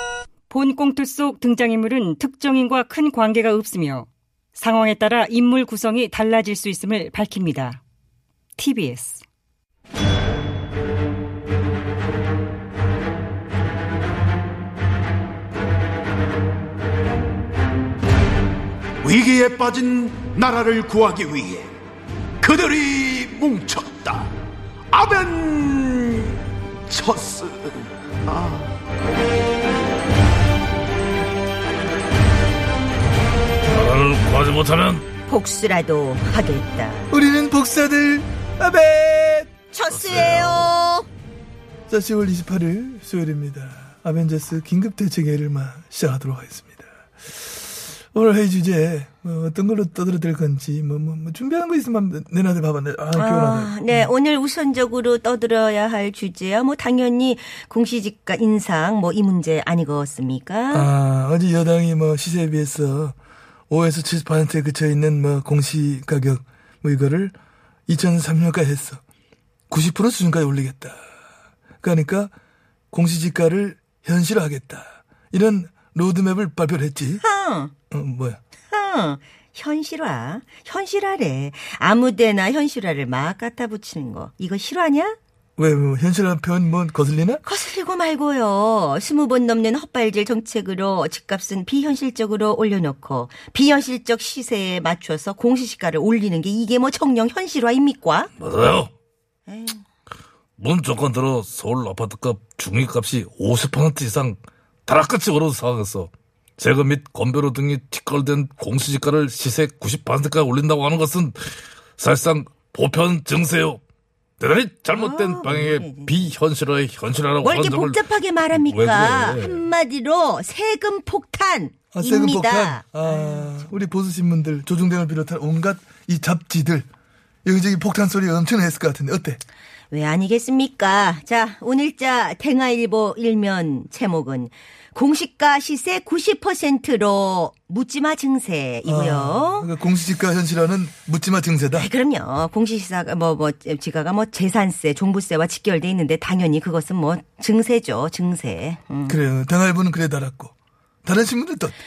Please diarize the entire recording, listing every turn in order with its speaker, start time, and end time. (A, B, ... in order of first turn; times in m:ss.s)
0:00.5-0:07.8 A
0:08.6-0:09.2 A
0:19.0-0:21.7 B
0:22.4-0:24.3 B
0:24.9-0:28.7 B
0:33.7-0:35.1 C
0:35.3-0:37.1 D
0:37.1-0:39.5 E
0:39.7-0:41.1 D
0:39.9-0:40.7 C
0:41.9-0:46.9 E
0:48.1-0:54.1 E
0:53.1-1:00.9 D
1:00.7-1:03.1 E
1:03.7-1:07.3 E
1:07.9-1:09.0 E
1:09.7-1:11.0 E
1:11.8-1:12.3 E
1:12.9-1:17.2 E
1:17.2-1:17.7 D
1:17.9-1:18.4 E
1:18.7-1:25.2 D
1:25.6-1:27.4 E
1:27.4-1:38.3 D
1:38.4-1:38.9 C
1:39.4-1:39.8 D
1:40.6-1:53.8 C
1:54.4-1:59.6 C
1:54.9-1:56.3 D
1:57.4-2:03.6 D
2:01.9-2:06.8 E
2:07.4-2:09.4 E
2:09.9-2:19.7 D
2:18.8-2:21.9 E
2:21.7-2:29.2 D
2:29.1-2:30.5 E
2:31.0-2:31.8 E